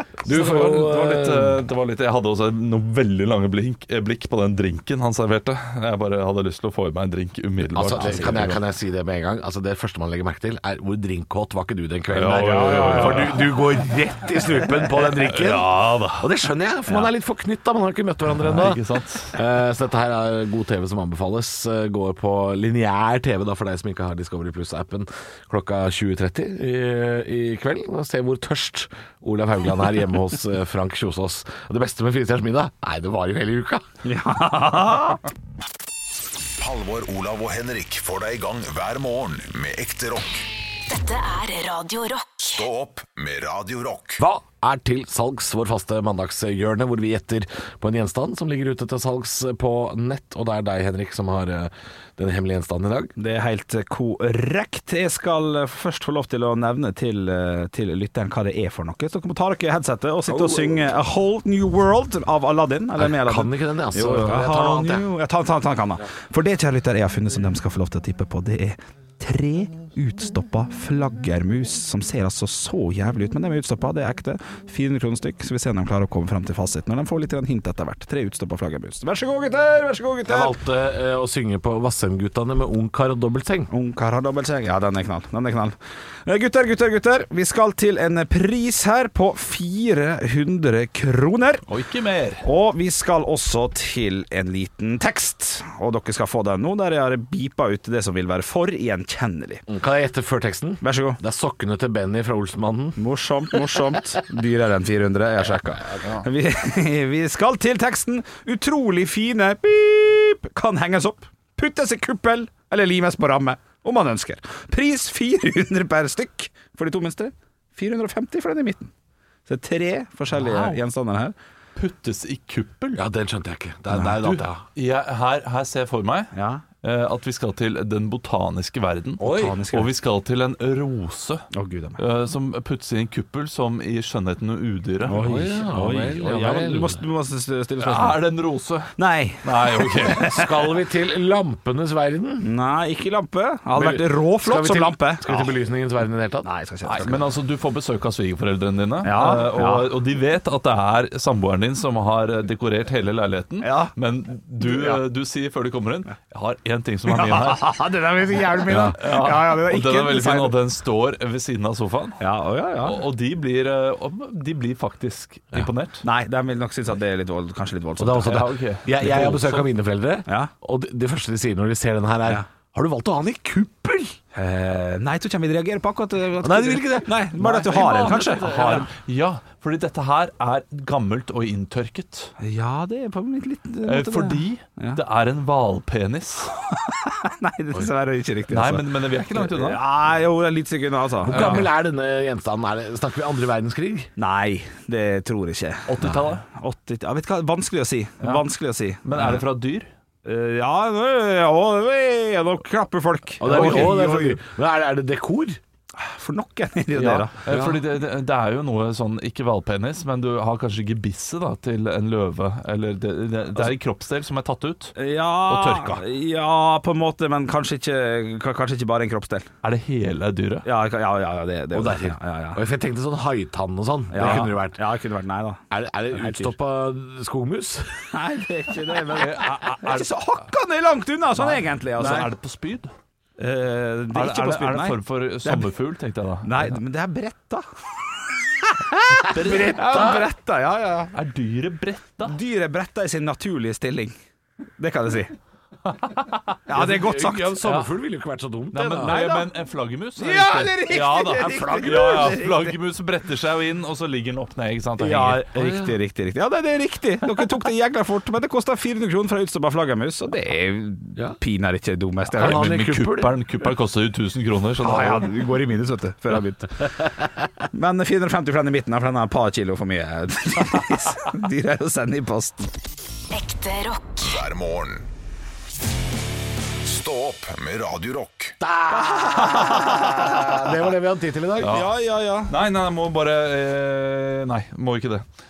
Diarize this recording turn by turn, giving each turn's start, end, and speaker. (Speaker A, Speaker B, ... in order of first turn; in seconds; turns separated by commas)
Speaker A: 0.2-1.6, Speaker B: 0.3-8.6, Speaker A: 7.7-33.8, Speaker C: 7.9-8.5, Speaker B: 12.1-13.4, Speaker C: 12.3-13.4, Speaker B: 15.1-16.3, Speaker B: 18.4-19.4, Speaker C: 34.0-35.2, Speaker D: 36.6-40.5, Speaker E: 40.9-42.6, Speaker D: 42.4-44.2, Speaker A: 44.2-53.1, Speaker C: 53.2-80.5, Speaker A: 60.3-60.9, Speaker A: 63.0-65.0, Speaker A: 80.2-83.7, Speaker C: 83.7-91.6, Speaker B: 91.7-92.4, Speaker C: 92.4-99.6, Speaker A: 99.7-103.0, Speaker C: 100.8-101.2, Speaker C: 103.0-118.9, Speaker C: 119.5-121.3, Speaker B: 120.3-120.8, Speaker B: 121.8-123.0, Speaker A: 122.9-124.6, Speaker B: 124.0-135.2, Speaker C: 126.3-126.6, Speaker C: 129.2-129.9, Speaker A: 129.2-129.6, Speaker C: 131.5-132.0, Speaker C: 135.1-138.3, Speaker A: 135.1-137.0, Speaker B: 137.8-140.3, Speaker C: 138.9-140.4, Speaker A: 140.2-142.5, Speaker C: 142.4-145.5, Speaker A: 143.7-146.5, Speaker C: 146.4-147.2, Speaker B: 146.8-157.7, Speaker C: 149.0-149.9, Speaker C: 153.6-153.9, Speaker C: 154.6-155.0, Speaker C: 157.1-160.6, Speaker A: 158.7-159.0, Speaker B: 159.0-162.2, Speaker C: 162.2-163.0, Speaker B: 162.8-166.1, Speaker C: 166.0-168.4, Speaker A: 168.0-174.2, Speaker B: 168.2-169.6, Speaker C: 169.0-169.4, Speaker C: 174.3-178.9, Speaker A: 176.4-178.8, Speaker B: 177.5-182.3, Speaker C: 182.4-185.0, Speaker B: 183.8-186.5, Speaker C: 186.7-191.6, Speaker B: 188.5-189.8, Speaker A: 191.2-194.1, Speaker B: 191.3-191.7, Speaker C: 194.2-195.9, Speaker B: 195.9-196.4, Speaker C: 196.5-199.4, Speaker B: 199.0-199.9, Speaker C: 200.2-204.4, Speaker A: 203.4-205.6, Speaker B: 203.4-203.9, Speaker C: 205.9-207.3, Speaker B: 206.9-216.0, Speaker A: 207.5-207.8, Speaker C: 214.9-219.5, Speaker B: 219.6-220.7, Speaker C: 220.6-222.6, Speaker A: 221.7-224.8, Speaker C: 224.1-226.5, Speaker A: 225.7-228.0, Speaker C: 228.1-232.3, Speaker B: 229.1-230.2, Speaker B: 231.4-232.9, Speaker C: 233.4-235.7, Speaker B: 234.1-236.8, Speaker C: 236.4-237.6, Speaker C: 238.3-241.1, Speaker B: 239.3-240.2, Speaker A: 239.8-240.2, Speaker B: 241.1-242.3, Speaker C: 242.2-244.1, Speaker C: 244.8-245.3, Speaker B: 245.9-246.6, Speaker C: 246.7-247.8, Speaker A: 246.7-249.2, Speaker B: 248.7-255.5, Speaker C: 249.0-249.5, Speaker C: 250.2-252.8, Speaker A: 251.4-252.3, Speaker C: 255.0-262.6, Speaker A: 255.6-255.9, Speaker A: 262.4-263.4, Speaker B: 262.4-265.3, Speaker C: 264.8-267.1, Speaker C: 267.7-272.7, Speaker E: 273.3-274.3, Speaker D: 274.2-275.1, Speaker D: 276.8-278.5, Speaker A: 278.6-281.8, Speaker C: 278.9-280.7, Speaker B: 281.6-281.9, Speaker C: 281.6-282.5, Speaker B: 282.5-285.2